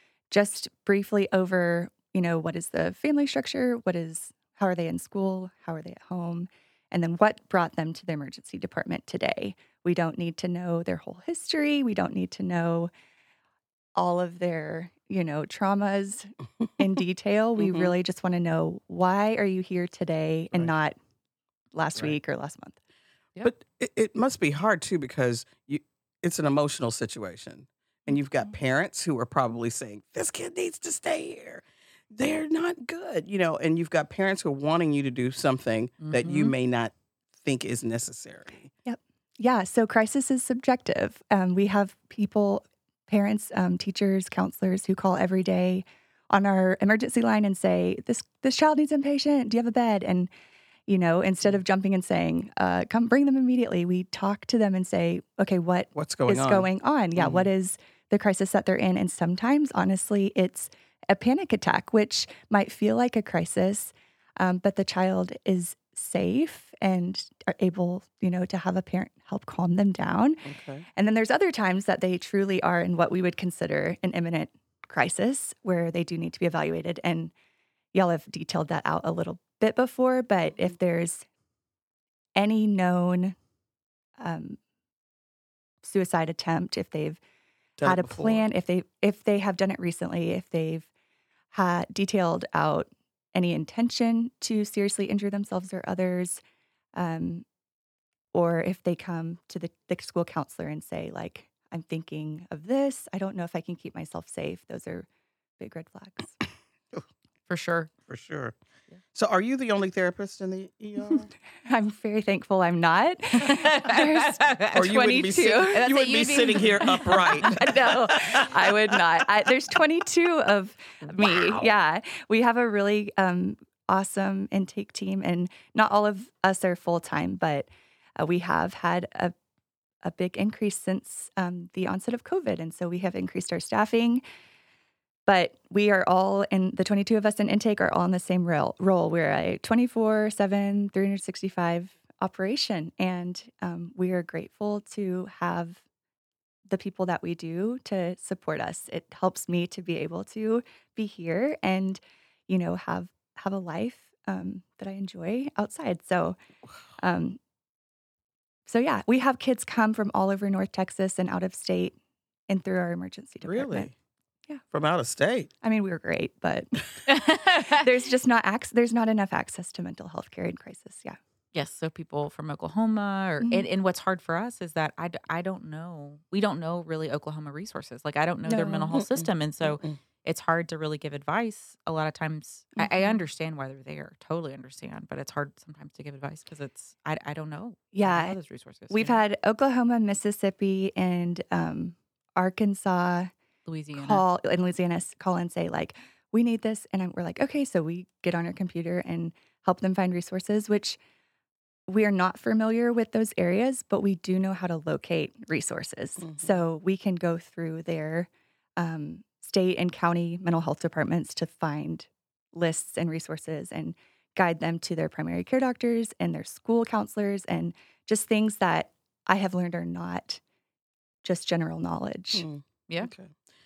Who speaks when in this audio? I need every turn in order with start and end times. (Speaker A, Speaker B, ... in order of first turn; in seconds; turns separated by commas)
Speaker A: 0.3-12.9, Speaker A: 13.9-20.9, Speaker B: 17.6-17.9, Speaker A: 21.7-22.8, Speaker B: 23.4-38.7, Speaker C: 36.0-36.5, Speaker A: 38.8-50.3, Speaker A: 50.9-77.3, Speaker B: 55.9-57.5, Speaker B: 70.4-70.9, Speaker A: 77.9-81.2, Speaker A: 82.3-83.3, Speaker A: 84.2-84.6, Speaker A: 85.8-87.2, Speaker B: 87.8-88.5, Speaker A: 87.8-90.9, Speaker A: 91.5-96.4, Speaker A: 96.9-97.4, Speaker A: 98.3-105.0, Speaker A: 105.6-106.4, Speaker C: 107.5-107.9, Speaker B: 108.1-108.5, Speaker B: 109.1-111.3, Speaker A: 111.7-115.9, Speaker C: 113.4-114.8, Speaker B: 114.7-119.0, Speaker C: 115.5-118.1, Speaker A: 117.4-129.3, Speaker B: 121.2-121.7, Speaker A: 130.0-134.2, Speaker A: 135.2-145.8, Speaker A: 146.7-156.4, Speaker A: 157.0-157.4, Speaker A: 158.7-161.9, Speaker A: 162.5-163.9, Speaker B: 163.4-163.9, Speaker B: 164.7-165.5, Speaker A: 165.6-171.2, Speaker C: 167.1-167.8, Speaker C: 171.5-189.2, Speaker A: 173.4-173.7, Speaker B: 178.5-180.0, Speaker A: 182.8-183.2, Speaker A: 187.9-188.4, Speaker A: 188.9-193.3, Speaker C: 193.7-194.2, Speaker A: 193.9-201.0, Speaker A: 201.9-220.4, Speaker B: 206.2-206.6, Speaker A: 221.2-222.5, Speaker B: 222.3-223.3